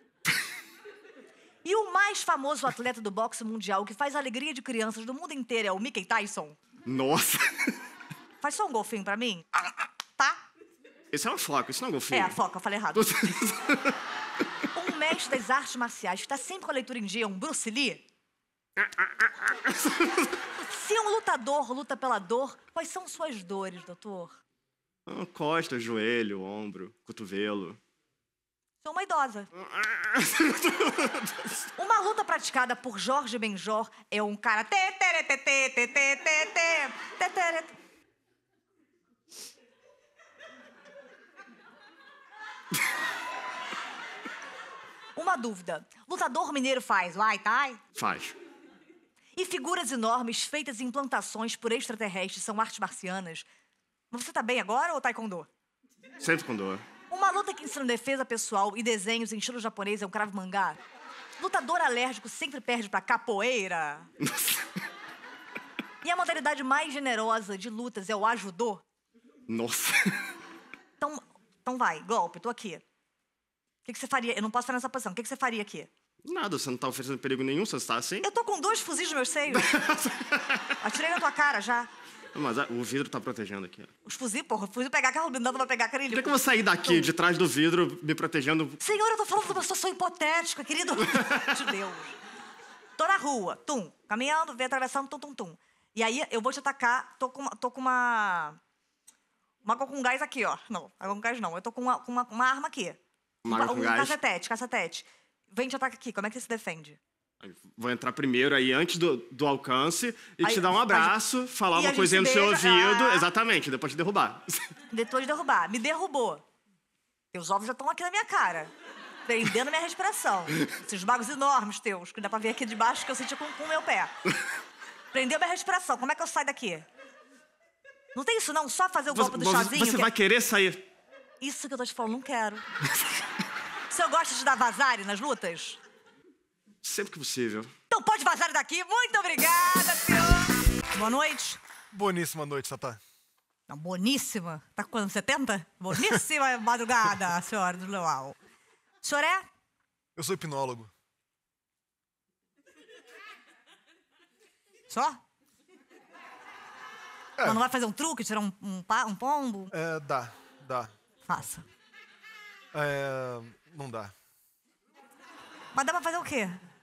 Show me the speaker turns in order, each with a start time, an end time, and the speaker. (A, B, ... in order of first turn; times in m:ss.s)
0:01.6-0:06.6 A
0:06.9-0:07.8 B
0:08.4-0:10.4 A
0:11.1-0:12.4 B
0:12.1-0:13.1 A
0:13.0-0:14.0 B
0:14.8-0:18.0 A
0:18.8-0:20.4 B
0:20.7-0:24.4 A
0:25.1-0:27.8 B
0:28.8-0:29.5 A
0:29.5-0:31.7 B
0:31.8-0:37.8 A
0:45.2-0:47.8 A
0:48.0-0:48.4 B
0:49.4-0:53.5 A
0:54.1-0:55.5 A
0:56.2-0:56.9 B
0:57.1-1:00.8 A
1:01.4-1:04.1 A
1:04.2-1:04.7 B
1:06.0-1:08.8 A
1:09.5-1:10.3 B
1:11.0-1:12.8 A
1:13.8-1:15.9 A
1:16.2-1:18.3 B
1:18.2-1:19.7 A
1:19.5-1:20.8 B
1:20.8-1:21.9 A
1:22.3-1:23.9 B
1:24.1-1:27.1 A
1:26.1-1:28.8 B
1:28.8-1:32.2 A
1:33.0-1:38.6 A
1:39.6-1:47.0 A
1:43.4-1:44.2 B
1:47.4-1:54.7 B
1:50.4-1:51.2 A
1:51.7-1:53.2 A
1:54.9-1:56.4 A
1:57.3-1:58.7 A
1:59.2-2:04.1 A
2:05.1-2:06.9 A
2:08.2-2:10.1 A
2:09.1-2:10.9 B
2:11.4-2:12.6 A
2:13.9-2:15.8 A
2:16.8-2:17.7 B
2:17.9-2:21.6 A
2:21.9-2:23.0 C
2:23.7-2:28.4 A
2:29.0-2:29.5 A
2:30.2-2:30.9 C
2:34.9-2:35.2 A
2:37.4-2:37.6 C
2:37.4-2:39.7 A
2:39.7-2:40.9 C
2:41.3-2:41.7 A
2:42.7-2:44.1 C
2:45.7-2:46.6 A